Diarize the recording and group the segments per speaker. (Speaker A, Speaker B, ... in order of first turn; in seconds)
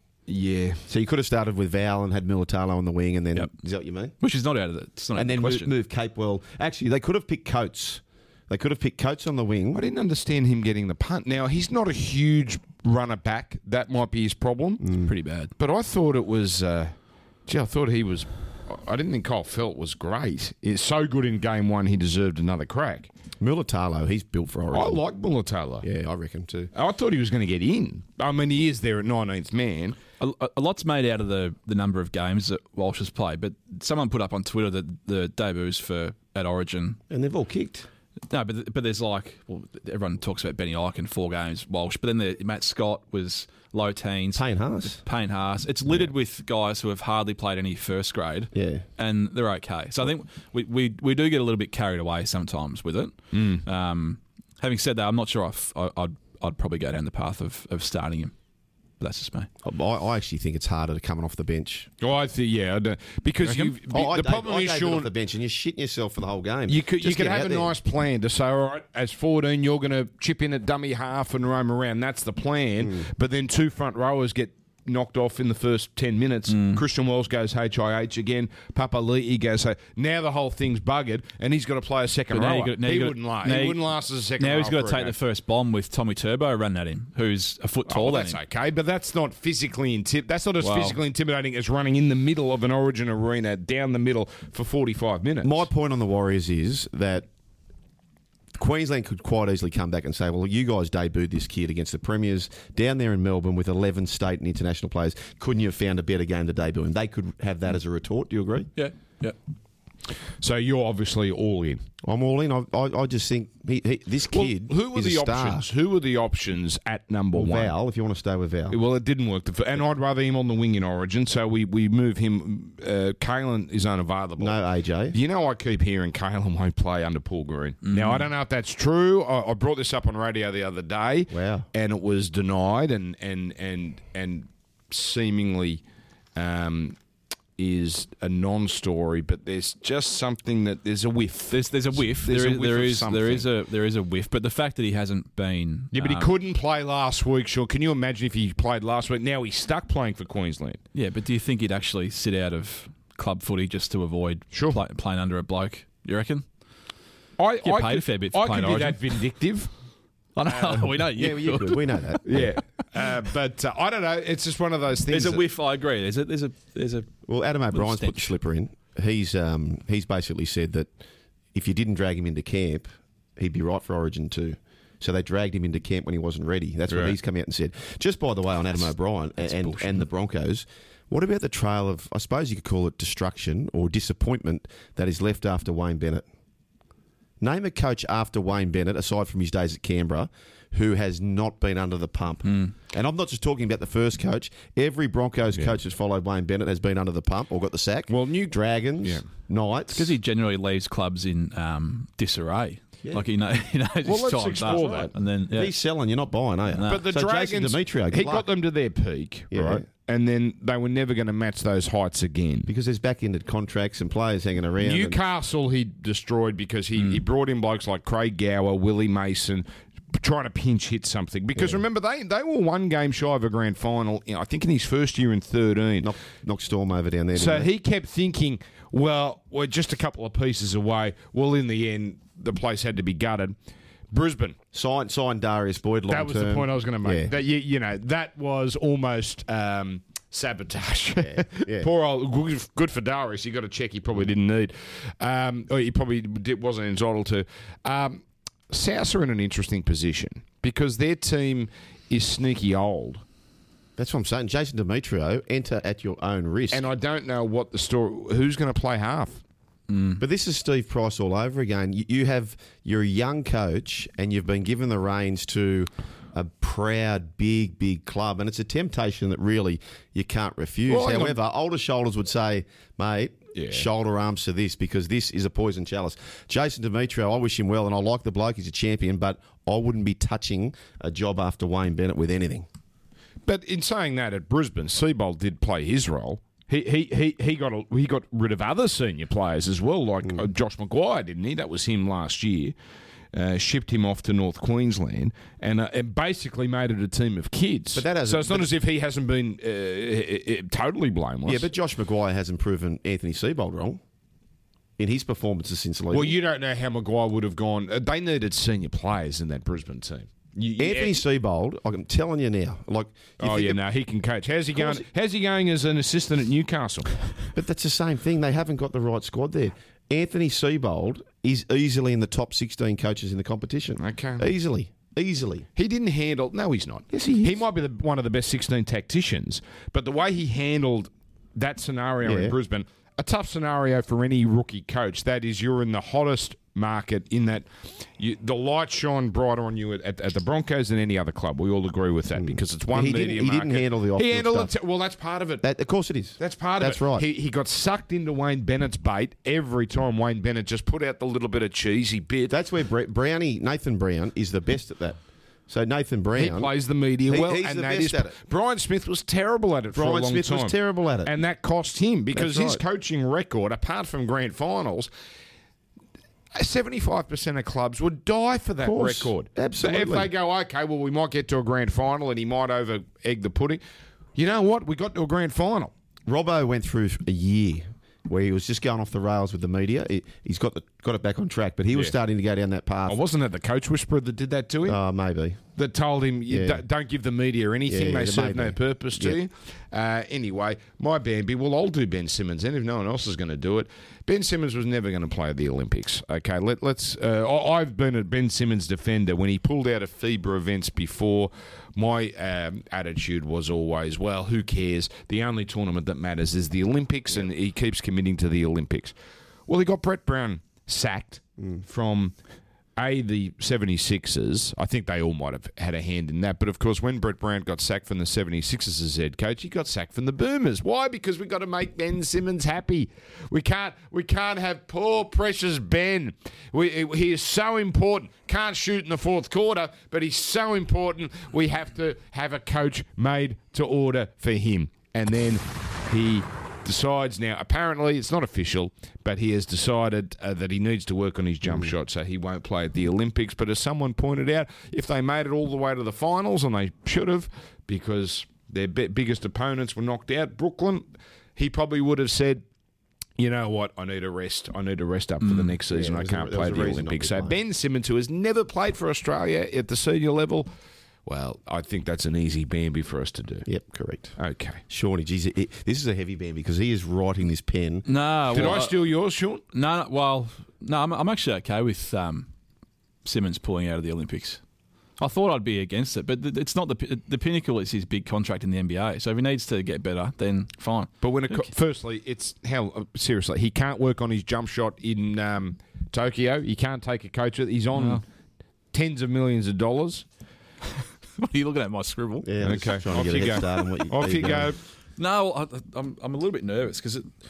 Speaker A: 0.3-0.8, 9.7-14.8, 15.6-16.9, 17.5-23.1, 24.7-25.9, 26.7-30.0, 53.3-53.6, 62.0-65.1, 66.7-85.2, 87.9-95.7, 110.4-111.8, 114.3-117.7, 118.7-124.6, 125.1-135.8, 136.3-137.0, 137.6-143.5, 145.9-150.8, 154.5-154.8, 157.4-159.7, 160.5-160.8, 162.2-165.4, 176.9-177.2, 198.1-199.2, 204.0-205.1, 206.9-212.7, 214.8-226.1, 227.3-233.5, 234.1-234.6, 236.1-253.2, 256.7-259.4, 270.9-271.4, 273.5-273.9, 283.4-292.7, 293.3-301.7, 306.1-311.2, 313.4-317.1, 324.0-324.5, 325.8-345.6, 346.4-352.5, 356.4-365.1, 366.5-373.8, 374.4-375.9, 383.1-385.0, 385.8-409.1, 409.7-412.3, 413.0-452.6, 453.4-460.7, 461.2-463.6, 464.4-464.8, 468.5-469.6, 481.2-488.2, 488.9-490.2, 492.6-494.8
Speaker B: 0.9-4.1, 5.1-9.8, 14.8-15.1, 23.4-25.0, 25.8-26.7, 37.1-37.9, 44.3-45.0, 48.5-48.8, 59.6-61.9, 63.5-67.7, 95.4-97.3, 98.5-108.7, 112.0-115.7, 117.3-118.8, 124.4-125.2, 131.3-131.7, 161.1-162.5, 167.2-170.9, 171.5-186.2, 187.4-200.1, 204.7-208.4, 209.5-209.8, 212.7-215.2, 221.6-221.8, 226.0-227.7, 234.7-237.3, 241.2-241.9, 254.0-256.9, 260.2-282.7, 297.9-298.7, 301.4-304.0, 305.0-306.4, 310.8-313.8, 314.8-315.0, 317.5-325.7, 327.1-327.6, 332.2-332.6, 342.4-344.7, 345.6-347.2, 352.5-356.7, 357.3-358.3, 359.9-361.3, 362.3-362.8, 368.8-370.3, 376.3-383.2, 384.8-385.6, 386.5-386.8, 387.9-389.4, 455.9-457.6, 463.6-464.4, 464.9-468.1, 492.4-494.7
Speaker C: 4.2-5.7, 15.0-15.5, 30.2-37.0, 38.3-58.3, 59.0-59.5, 76.5-76.8, 82.3-83.8, 84.4-88.4, 90.6-91.0, 108.8-109.3, 127.8-128.3, 141.5-146.3, 150.9-156.4, 157.6-159.1, 160.3-162.0, 165.1-167.1, 167.7-168.3, 179.4-180.0, 192.4-192.7, 199.9-205.7, 206.7-207.0, 259.9-260.2, 455.4-455.8, 468.1-468.9, 469.7-472.5, 473.2-474.6, 475.2-481.7, 487.9-488.2, 491.4-492.5, 495.2-497.3